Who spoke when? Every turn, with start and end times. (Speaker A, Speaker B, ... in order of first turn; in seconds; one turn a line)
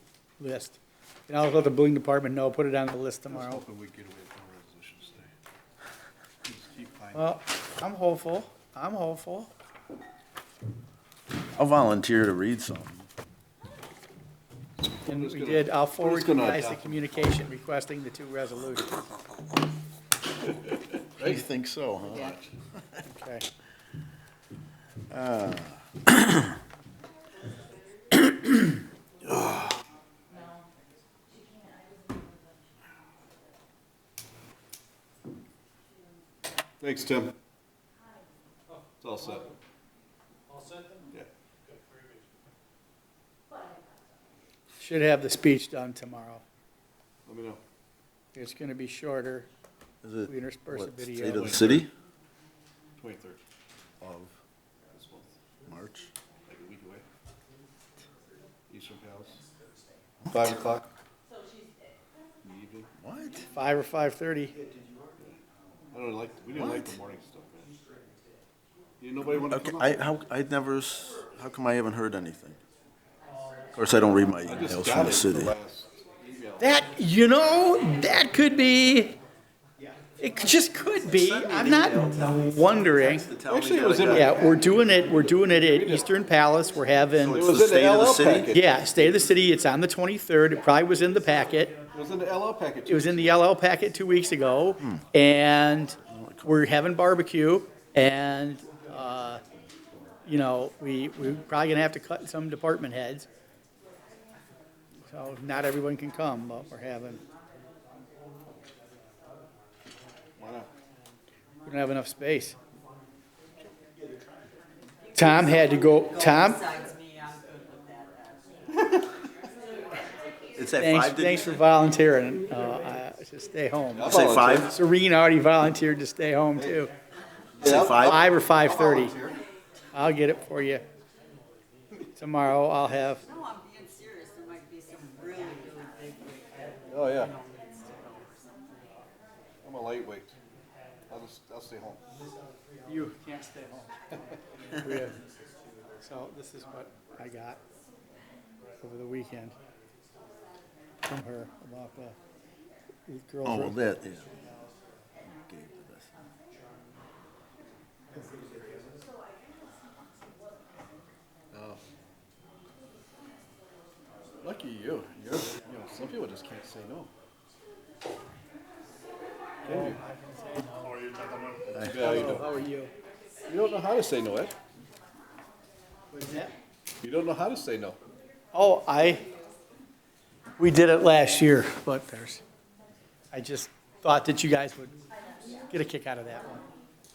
Speaker A: 0.4-3.6
Speaker B: 3.3-5.3
Speaker B: 6.4-7.3
Speaker A: 7.1-9.5
Speaker C: 11.6-13.1
Speaker B: 15.0-17.4
Speaker A: 15.1-19.1
Speaker C: 21.2-23.0
Speaker A: 23.1-23.5
Speaker C: 25.1-26.5
Speaker B: 29.4-29.7
Speaker D: 31.4-32.2
Speaker B: 36.8-37.4
Speaker B: 39.0-39.5
Speaker A: 44.8-46.4
Speaker B: 47.3-47.6
Speaker A: 48.3-49.5
Speaker C: 50.0-51.9
Speaker A: 50.3-51.6
Speaker B: 51.2-51.9
Speaker B: 53.0-53.4
Speaker C: 54.0-54.4
Speaker B: 54.9-55.3
Speaker C: 55.7-56.1
Speaker B: 56.5-57.0
Speaker B: 58.7-59.4
Speaker B: 60.3-60.9
Speaker B: 62.4-62.9
Speaker C: 63.0-63.5
Speaker A: 63.5-64.5
Speaker B: 65.9-67.7
Speaker C: 66.5-66.9
Speaker B: 69.0-69.9
Speaker C: 69.3-72.6
Speaker C: 73.7-75.5
Speaker B: 74.5-76.7
Speaker A: 76.6-79.2
Speaker A: 80.2-83.3
Speaker C: 81.1-84.6
Speaker B: 83.5-86.1
Speaker A: 84.1-87.4
Speaker C: 87.2-88.5
Speaker B: 87.3-89.1
Speaker A: 88.5-91.7
Speaker B: 91.9-93.3
Speaker A: 92.9-99.4
Speaker C: 96.1-96.6
Speaker A: 100.3-103.3
Speaker A: 105.1-107.2
Speaker B: 110.4-110.7
Speaker A: 111.7-112.5
Speaker A: 115.2-116.7
Speaker D: 116.2-118.3
Speaker C: 120.5-121.6
Speaker A: 120.8-126.9
Speaker B: 123.9-124.7
Speaker C: 124.1-124.7
Speaker C: 127.6-128.3
Speaker B: 127.6-129.4
Speaker A: 127.7-129.2
Speaker A: 129.9-130.8
Speaker A: 132.2-133.2
Speaker D: 133.3-136.4
Speaker B: 136.9-137.3
Speaker D: 137.4-138.4
Speaker B: 139.6-140.3
Speaker B: 141.1-142.0
Speaker A: 142.9-144.1
Speaker A: 144.8-145.2
Speaker A: 146.0-147.6
Speaker A: 148.8-149.6
Speaker A: 151.1-152.2
Speaker A: 153.1-153.8
Speaker C: 153.4-154.4
Speaker C: 155.2-156.1
Speaker B: 161.5-161.8
Speaker B: 164.4-167.1
Speaker B: 169.7-170.0
Speaker A: 169.7-171.1
Speaker B: 171.7-172.5
Speaker A: 171.9-172.9
Speaker B: 173.5-174.5
Speaker A: 176.1-176.5
Speaker B: 177.0-178.0
Speaker A: 178.5-179.2
Speaker A: 180.6-182.4
Speaker A: 183.3-185.0
Speaker A: 185.7-186.7